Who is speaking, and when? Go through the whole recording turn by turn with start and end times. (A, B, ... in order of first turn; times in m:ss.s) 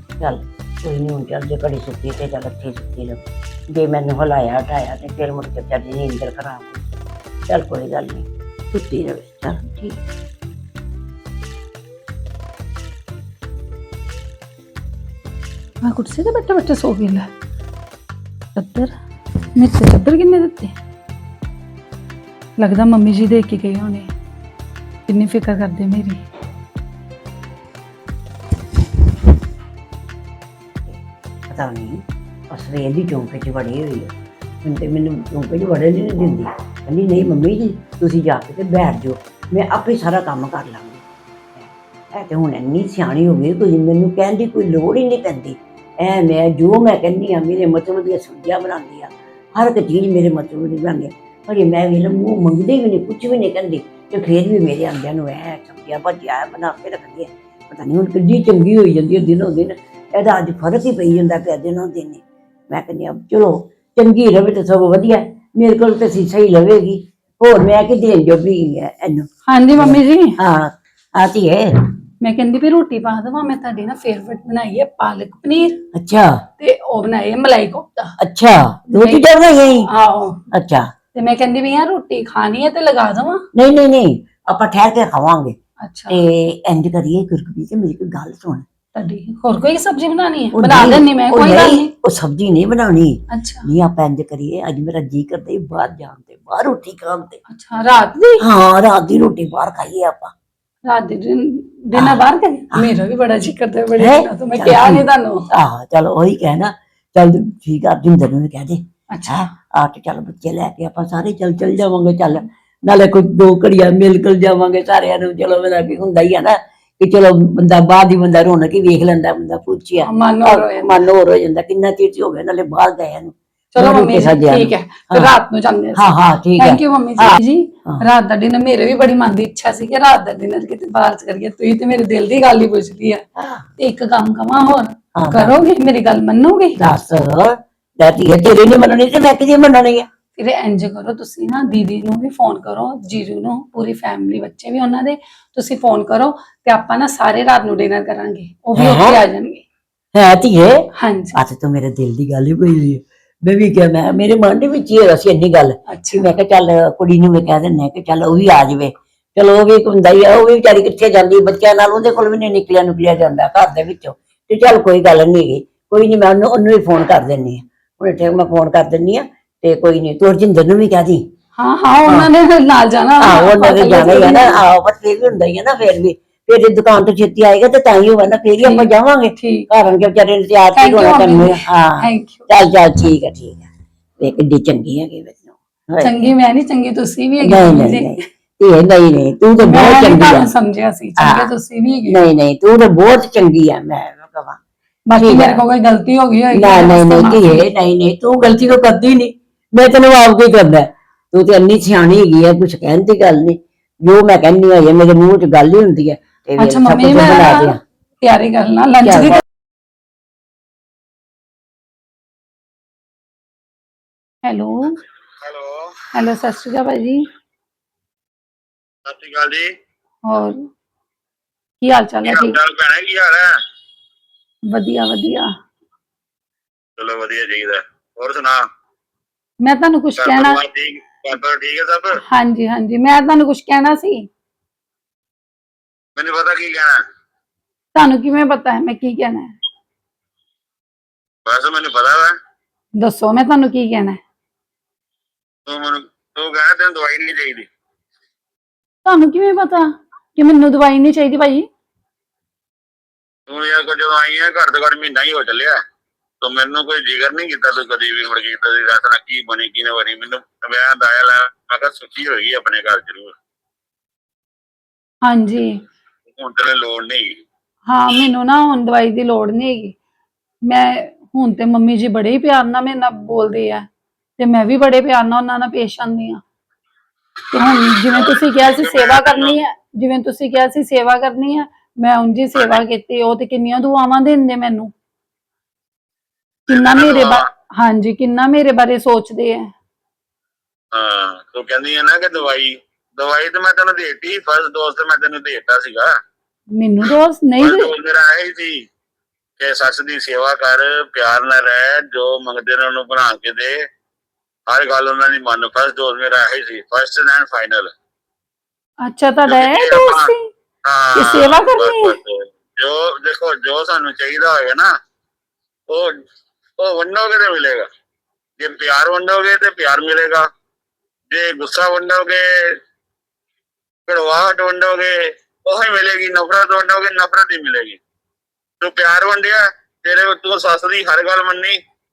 0:00.2-0:06.8 A
0:07.5-0:10.0 A
0:15.8-0:17.3 B
0:18.5-0:18.9 B
0:19.6-0:20.8 B
0:22.6-0:24.1 B
0:25.1-0:26.2 B
0:30.9-0:34.1 A
0:34.6-0:41.0 A
0:41.5-1:11.7 A
1:09.5-1:10.4 B
1:12.2-1:15.8 B
1:15.9-1:16.4 A
1:16.6-1:18.1 B
1:18.2-1:19.9 A
1:19.0-1:19.2 B
1:19.9-1:20.4 B
1:20.5-1:20.9 A
1:21.1-1:23.4 B
1:23.5-1:25.6 A
1:25.8-1:26.2 B
1:26.1-1:28.6 A
1:28.9-1:31.9 B
1:30.5-1:37.4 A
1:33.3-1:33.7 B
1:37.5-1:38.4 B
1:38.4-1:40.3 A
1:40.9-1:45.4 B
1:41.9-1:42.2 A
1:44.0-2:05.3 A
1:49.1-1:49.4 B
2:00.0-2:01.0 B
2:03.7-2:13.2 B
2:05.9-2:08.0 A
2:13.4-2:13.6 A
2:13.8-2:16.8 B
2:15.2-2:15.6 A
2:16.8-2:20.1 A
2:20.4-2:29.6 B
2:28.8-2:29.2 A
2:30.1-2:51.2 A
2:31.0-2:31.4 B
2:35.9-2:36.2 B
2:51.6-2:54.6 B
2:52.0-2:52.3 A
2:53.2-3:03.7 A
2:58.6-2:59.7 B
3:00.8-3:02.5 B
3:04.2-3:06.3 A
3:06.0-3:08.2 B
3:07.4-3:10.5 A
3:09.6-3:12.2 B
3:11.2-3:11.5 A
3:12.1-3:14.6 A
3:15.1-3:17.6 B
3:15.2-3:15.6 A
3:16.5-3:27.8 A
3:26.6-3:29.4 B
3:29.0-3:29.4 A
3:34.4-3:35.0 B
3:35.4-3:35.9 C
3:36.1-3:37.2 B
3:39.0-3:39.7 C
3:40.3-3:40.7 B
3:41.8-3:42.6 B
3:42.2-3:43.6 C
3:44.7-3:45.5 B
3:47.0-3:48.6 C
3:49.6-3:50.6 B
3:50.2-3:52.1 C
3:52.3-3:54.3 B
3:56.2-3:57.0 C
3:57.9-3:59.5 B
4:01.4-4:02.3 C
4:03.0-4:04.2 B
4:05.6-4:07.7 C
4:09.0-4:11.6 B
4:13.5-4:15.8 C
4:16.4-4:23.3 C
4:25.2-4:25.8 B
4:26.3-4:27.4 C
4:27.9-4:29.9 B
4:30.7-4:33.9 B
4:34.4-4:36.4 B
4:37.5-4:44.9 B
4:38.1-4:39.6 C
4:42.6-4:42.8 C
4:46.7-4:47.4 C
4:46.7-4:49.7 B
4:50.9-4:56.1 C
4:56.8-4:57.9 B
4:57.6-4:58.9 C
4:59.6-5:03.8 C
5:04.7-5:07.9 C
5:09.0-5:10.5 B
5:09.5-5:10.3 C
5:10.8-5:14.9 C
5:11.1-5:12.2 B
5:16.8-5:17.9 C
5:18.6-5:20.5 C
5:21.3-5:22.8 C
5:24.1-5:28.0 C
5:28.8-5:31.8 C